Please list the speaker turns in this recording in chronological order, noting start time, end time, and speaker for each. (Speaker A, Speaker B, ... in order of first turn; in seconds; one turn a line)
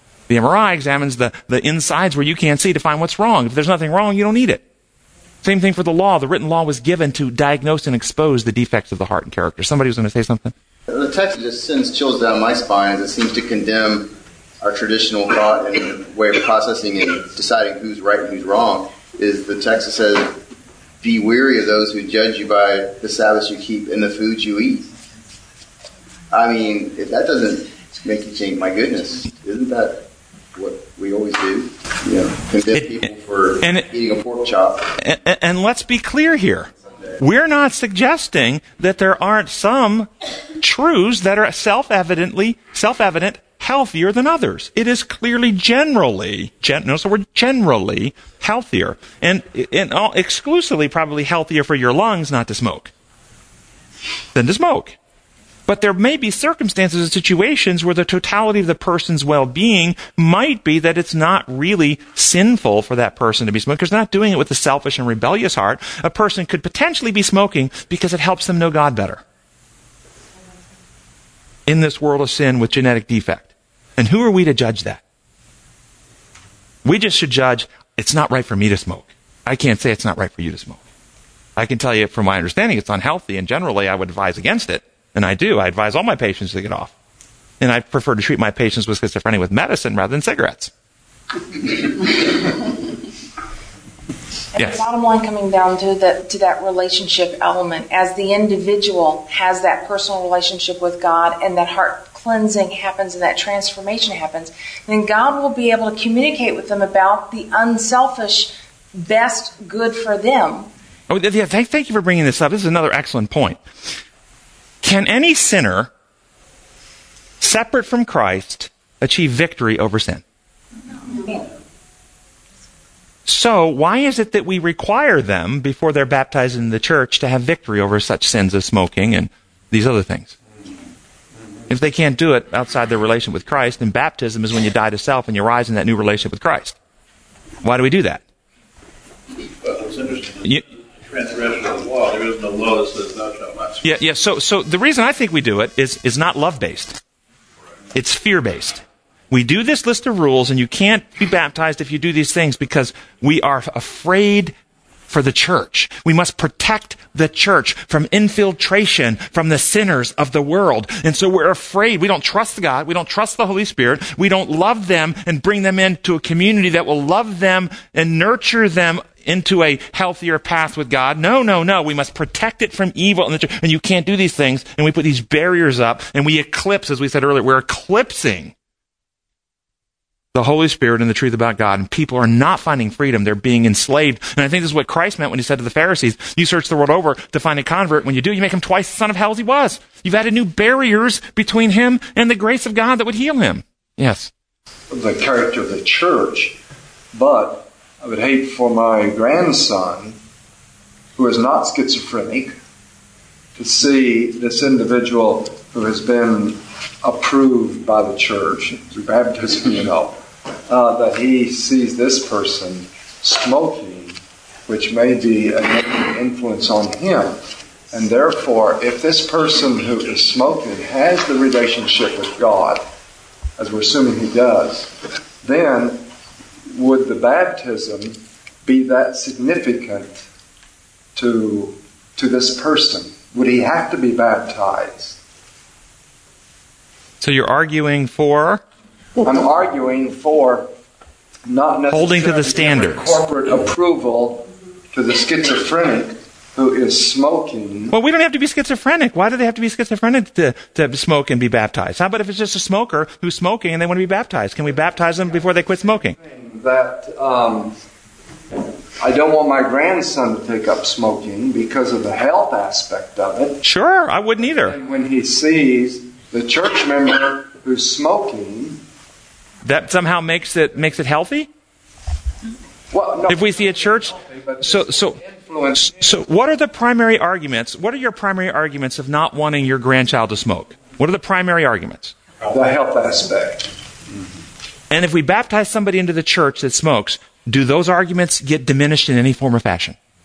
Speaker A: 0.3-4.6
Speaker A: 5.4-10.5
Speaker B: 10.9-20.4
Speaker B: 21.0-24.9
Speaker B: 26.3-35.0
Speaker A: 32.7-33.0
Speaker A: 35.0-52.9
Speaker A: 54.3-55.0
Speaker A: 55.7-69.2
Speaker A: 71.7-75.0
Speaker A: 76.8-80.8
Speaker A: 81.5-86.9
Speaker A: 87.6-90.7
Speaker C: 94.5-110.7
Speaker A: 111.1-113.6
Speaker A: 114.8-115.9
Speaker A: 117.4-120.2
Speaker A: 123.2-130.3
Speaker A: 131.7-136.8
Speaker A: 137.6-138.2
Speaker D: 139.6-140.4
Speaker D: 141.1-143.8
Speaker A: 143.8-147.0
Speaker A: 147.9-154.5
Speaker A: 155.1-178.5
Speaker A: 180.3-194.3
Speaker E: 194.9-196.6
Speaker E: 197.1-200.2
Speaker E: 201.2-202.5
Speaker E: 203.6-217.4
Speaker E: 217.9-222.8
Speaker E: 223.6-226.0
Speaker E: 226.7-230.2
Speaker E: 231.1-235.2
Speaker A: 237.2-238.6
Speaker E: 239.2-240.7
Speaker E: 241.4-247.9
Speaker A: 241.9-243.1
Speaker A: 247.9-256.2
Speaker E: 256.1-257.7
Speaker E: 259.0-263.6
Speaker A: 263.6-264.8
Speaker E: 264.5-268.8
Speaker A: 269.6-271.5
Speaker E: 272.9-276.1
Speaker A: 273.3-275.2
Speaker A: 275.7-282.1
Speaker E: 282.4-283.7
Speaker A: 284.9-290.0